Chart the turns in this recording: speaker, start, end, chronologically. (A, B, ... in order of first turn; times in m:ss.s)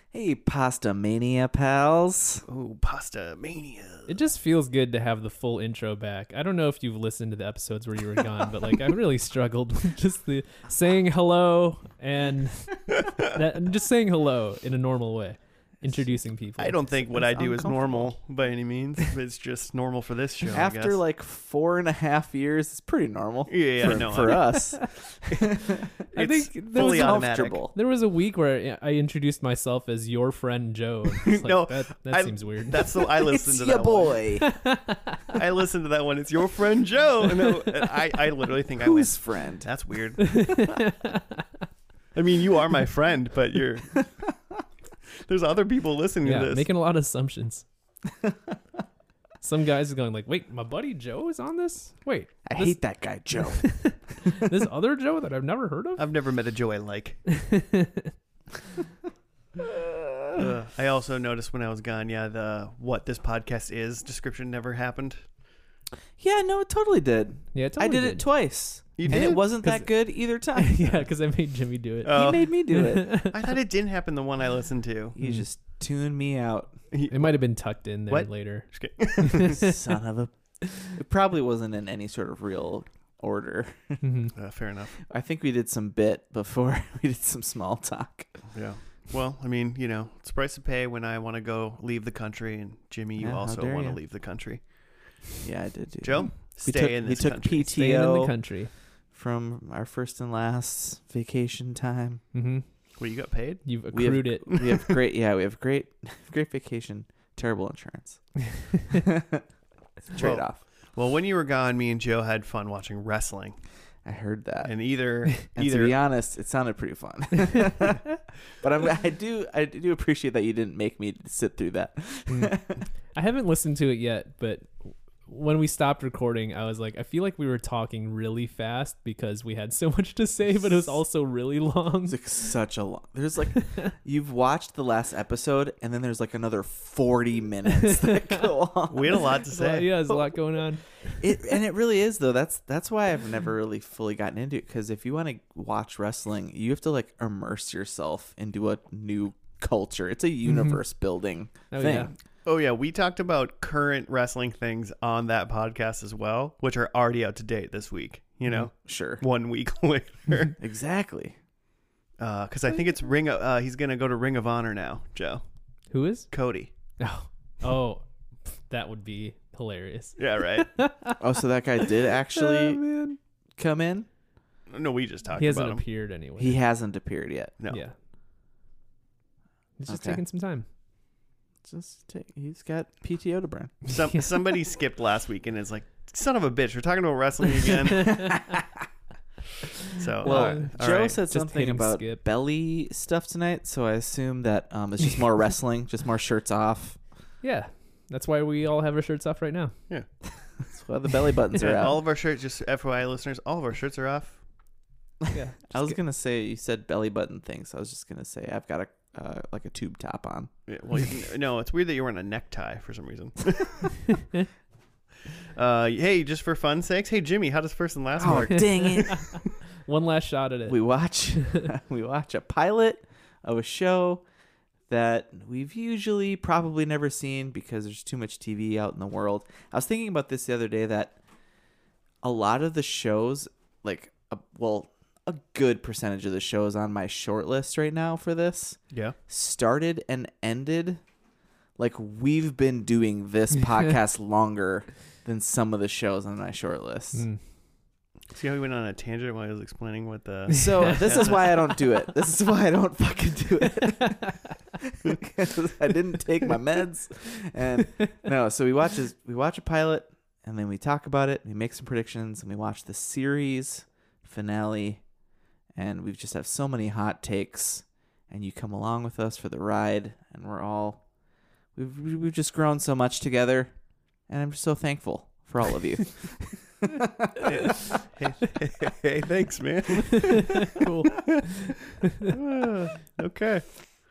0:00.1-0:02.4 A
0:02.4-0:04.1 B
0:04.1-0:16.8 C
0:16.6-0:21.0 B
0:17.1-0:18.1 A
0:20.5-0:25.9 A
0:23.5-0:24.6 B
0:23.9-0:24.8 C
0:26.1-0:27.6 B
0:26.1-0:33.0 C
0:26.7-0:27.7 A
0:31.2-0:34.2 B
0:33.2-0:34.5 A
0:34.4-0:35.3 C
0:35.3-0:40.6 B
0:38.8-0:39.7 A
0:40.2-0:41.4 C
0:42.1-0:44.3 B
0:45.2-0:46.7 B
0:46.2-0:47.6 C
0:49.4-0:56.0 C
0:52.4-0:54.4 A
0:56.0-0:57.2 B
0:57.3-0:58.1 C
0:59.6-1:00.5 A
1:00.4-1:05.2 B
1:06.2-1:11.0 A
1:07.5-1:08.2 C
1:09.0-1:09.4 B
1:09.1-1:09.9 C
1:10.5-1:13.5 C
1:12.0-1:12.5 B
1:12.1-1:13.1 A
1:13.2-1:15.2 B
1:15.1-1:16.7 A
1:15.2-1:15.4 C
1:16.9-1:19.6 B
1:17.1-1:19.7 C
1:19.6-1:24.0 A
1:24.0-1:24.3 C
1:24.3-1:25.0 B
1:25.0-1:28.4 A
1:28.5-1:35.2 B
1:33.2-1:34.0 A
1:35.4-1:38.4 A
1:36.0-1:37.7 B
1:37.7-1:38.7 C
1:39.1-1:42.2 A
1:42.3-1:42.6 C
1:43.0-1:43.7 B
1:43.6-1:44.5 C
1:43.9-1:48.3 A
1:44.5-1:45.0 B
1:48.9-1:49.4 A
1:50.1-1:50.6 A
1:50.1-1:53.6 B
1:54.0-1:54.7 A
1:54.6-1:56.0 B
1:55.3-1:58.1 A
1:58.6-2:02.8 A
2:02.3-2:02.6 C
2:03.1-2:12.2 C
2:12.1-2:19.4 A
2:13.6-2:13.8 C
2:17.8-2:18.5 C
2:18.9-2:19.9 B
2:19.5-2:21.5 C
2:21.2-2:32.1 A
2:30.4-2:30.8 C
2:31.7-2:32.1 C
2:32.4-2:40.6 B
2:38.8-2:39.2 A
2:40.6-2:41.4 A
2:42.2-2:45.4 B
2:45.9-2:46.3 C
2:46.3-2:46.7 B
2:47.0-2:51.2 C
2:50.2-2:50.7 B
2:51.2-2:52.8 A
2:51.8-2:53.2 C
2:53.6-2:54.1 A
2:54.7-2:55.8 B
2:55.4-2:56.6 C
2:56.4-2:57.5 A
2:59.8-3:00.6 C
2:59.9-3:00.2 A
3:01.6-3:03.9 A
3:03.9-3:08.4 B
3:09.9-3:11.2 B
3:10.2-3:12.2 C
3:10.2-3:17.0 A
3:17.4-3:19.7 C
3:20.6-3:22.0 A
3:21.6-3:24.4 B
3:25.3-3:25.9 C
3:25.7-3:30.5 A
3:30.7-3:34.2 B
3:35.5-3:39.4 B
3:38.2-3:39.2 A
3:38.3-3:40.8 C
3:40.6-3:44.2 A
3:41.4-3:41.7 C
3:44.9-3:51.2 A
3:52.2-4:01.0 A
4:01.8-4:07.2 A
4:07.1-4:07.4 C
4:08.3-4:11.7 B
4:10.5-4:25.0 A
4:10.5-4:11.3 C
4:25.7-4:31.0 A
4:31.7-4:33.7 A
4:34.3-4:37.5 A
4:37.4-4:40.8 B
4:40.6-4:42.3 C
4:42.2-4:43.9 B